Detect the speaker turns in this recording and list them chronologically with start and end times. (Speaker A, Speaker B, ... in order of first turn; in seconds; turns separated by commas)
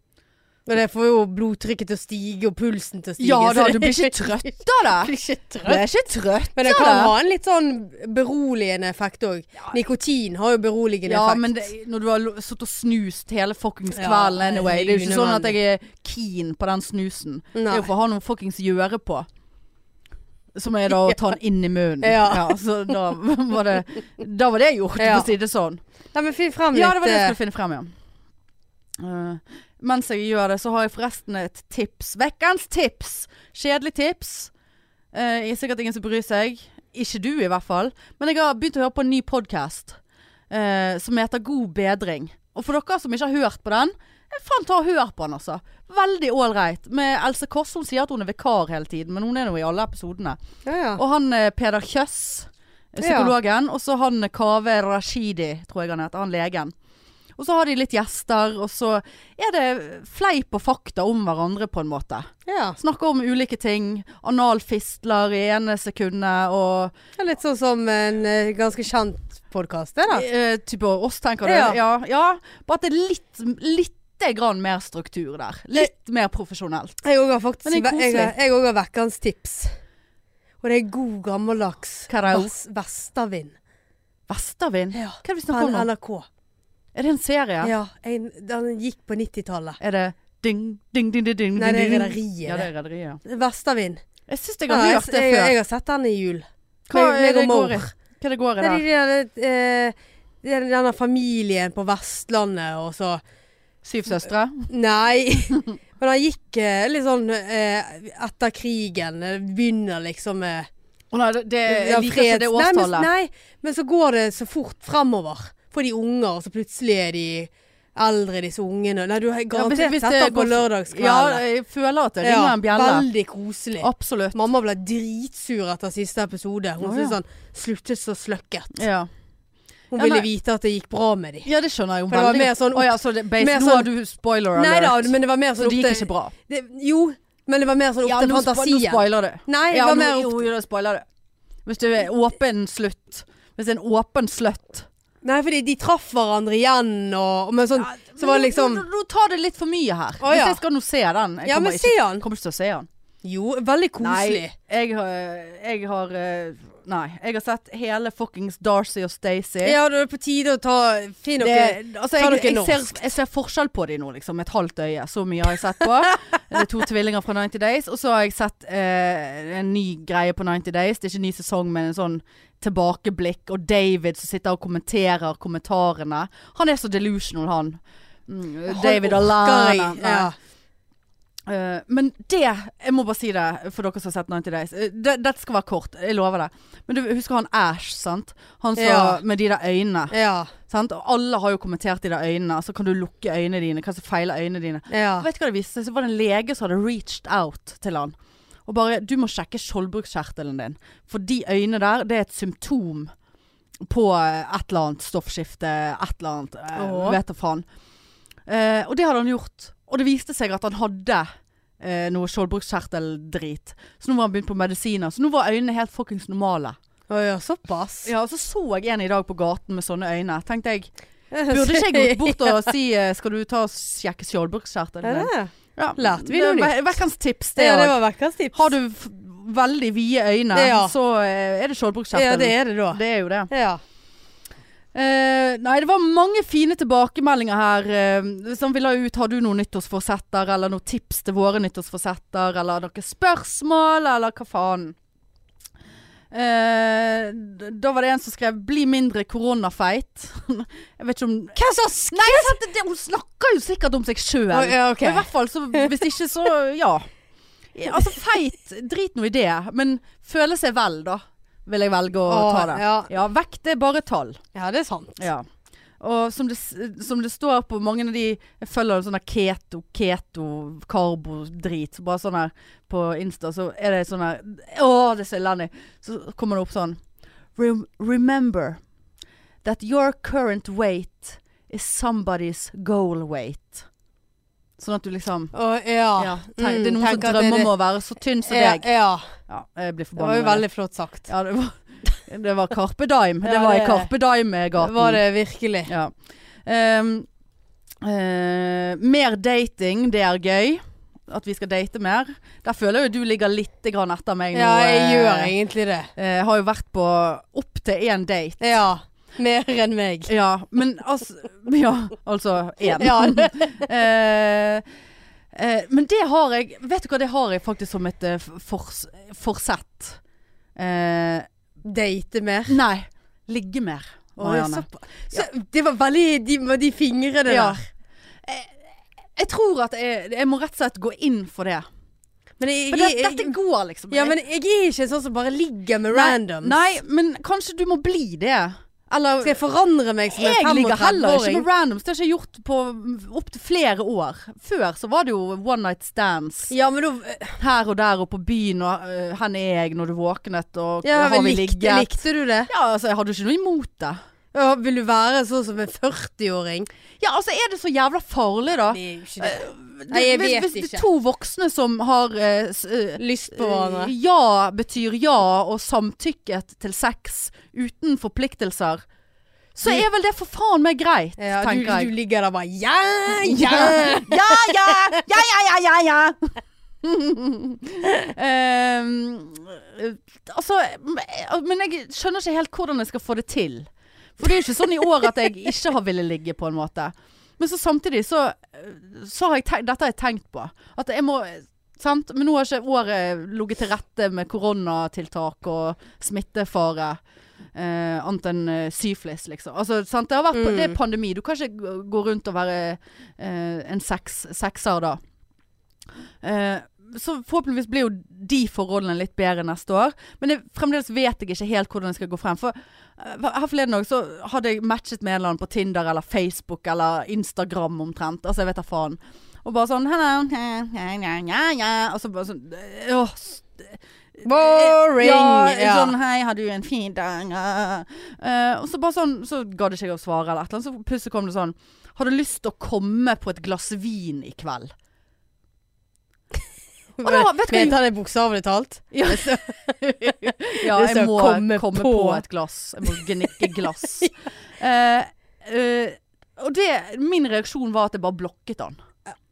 Speaker A: 0.7-5.8, Speaker B: 3.2-5.1, Speaker B: 5.6-7.1, Speaker A: 6.5-11.7, Speaker B: 11.0-19.3, Speaker A: 13.9-15.5, Speaker A: 17.5-17.9, Speaker B: 20.5-25.8, Speaker A: 22.0-22.6, Speaker A: 25.0-25.3, Speaker A: 26.1-27.4, Speaker B: 26.7-27.9, Speaker B: 29.0-34.5, Speaker B: 35.1-40.0, Speaker B: 40.5-50.4, Speaker A: 50.6-51.0, Speaker B: 51.0-56.7, Speaker A: 53.0-53.3, Speaker B: 57.4-66.9, Speaker A: 62.5-62.8, Speaker A: 67.2-70.2, Speaker B: 70.1-77.0, Speaker A: 71.4-71.8, Speaker A: 77.0-79.8, Speaker B: 77.6-78.3, Speaker A: 80.6-83.5, Speaker B: 82.1-82.5, Speaker B: 84.3-85.9, Speaker A: 84.9-86.2, Speaker B: 86.9-87.7, Speaker A: 87.6-89.8, Speaker B: 89.8-93.2, Speaker A: 91.5-92.7, Speaker A: 93.2-94.0, Speaker B: 94.3-95.5, Speaker A: 94.7-97.9, Speaker B: 96.9-98.8, Speaker A: 98.6-103.2, Speaker B: 103.8-104.7, Speaker A: 104.7-110.7, Speaker B: 111.1-113.1, Speaker A: 111.7-121.4, Speaker B: 119.5-123.1, Speaker A: 122.2-128.8, Speaker B: 123.8-124.4, Speaker B: 126.8-127.2, Speaker B: 128.7-129.1, Speaker A: 129.9-131.5, Speaker B: 129.9-130.3, Speaker B: 131.4-136.3, Speaker A: 132.1-133.9, Speaker A: 134.5-140.4, Speaker B: 138.0-141.0, Speaker B: 141.7-144.9, Speaker A: 145.2-148.8, Speaker B: 147.8-152.9, Speaker A: 150.2-150.6, Speaker A: 151.4-152.2, Speaker A: 153.2-154.5, Speaker B: 154.0-159.8, Speaker A: 159.6-163.1, Speaker B: 161.4-180.3, Speaker A: 178.7-180.3, Speaker B: 181.4-190.1, Speaker A: 188.8-189.2, Speaker A: 190.1-190.5, Speaker B: 190.7-198.1, Speaker A: 194.9-195.3, Speaker B: 198.7-203.1, Speaker B: 203.8-207.6, Speaker A: 206.7-207.2, Speaker B: 208.5-211.3, Speaker B: 211.8-216.8, Speaker A: 217.1-218.1, Speaker B: 218.0-220.9, Speaker A: 221.3-222.7, Speaker B: 221.5-228.0, Speaker A: 225.0-227.0, Speaker A: 227.6-228.7, Speaker B: 228.5-233.5, Speaker A: 230.5-230.9, Speaker A: 232.1-233.8, Speaker B: 234.9-244.9, Speaker B: 246.3-251.6, Speaker A: 251.5-252.6, Speaker B: 252.1-257.1, Speaker A: 254.5-255.9, Speaker B: 257.7-264.4, Speaker A: 262.3-263.1, Speaker A: 264.5-265.2, Speaker B: 265.2-265.4, Speaker B: 266.0-277.0, Speaker B: 277.6-278.8, Speaker B: 279.6-283.9, Speaker B: 284.8-285.5, Speaker A: 285.5-287.7, Speaker B: 286.2-288.9, Speaker A: 288.4-289.3, Speaker B: 289.5-290.6, Speaker A: 290.2-291.3, Speaker B: 291.3-295.2, Speaker A: 293.4-294.1, Speaker A: 294.8-295.9, Speaker B: 295.9-296.1, Speaker B: 296.6-297.3, Speaker B: 298.0-305.5, Speaker A: 304.5-306.1, Speaker B: 306.1-308.6, Speaker A: 308.6-310.3, Speaker B: 310.3-314.8, Speaker A: 312.9-313.8, Speaker B: 315.5-320.2, Speaker B: 320.8-321.5, Speaker A: 321.8-322.8, Speaker B: 322.7-325.5, Speaker A: 324.4-327.8, Speaker B: 327.5-327.8, Speaker B: 328.4-328.7, Speaker B: 329.4-331.9, Speaker A: 332.6-333.6, Speaker B: 332.9-334.3, Speaker A: 334.1-336.8, Speaker B: 336.1-339.6, Speaker A: 339.4-341.6, Speaker B: 340.3-346.7, Speaker A: 346.7-347.6, Speaker B: 347.6-354.2, Speaker A: 351.0-352.7, Speaker A: 354.5-356.9, Speaker B: 357.2-369.0, Speaker A: 358.8-361.0, Speaker A: 363.2-364.1, Speaker B: 369.8-372.1, Speaker A: 371.4-375.1, Speaker B: 373.4-397.2, Speaker B: 397.7-405.2, Speaker A: 400.5-400.9, Speaker B: 406.4-434.9, Speaker A: 424.4-426.1, Speaker A: 437.2-442.4, Speaker B: 437.2-438.0, Speaker B: 439.1-439.6, Speaker B: 440.2-449.0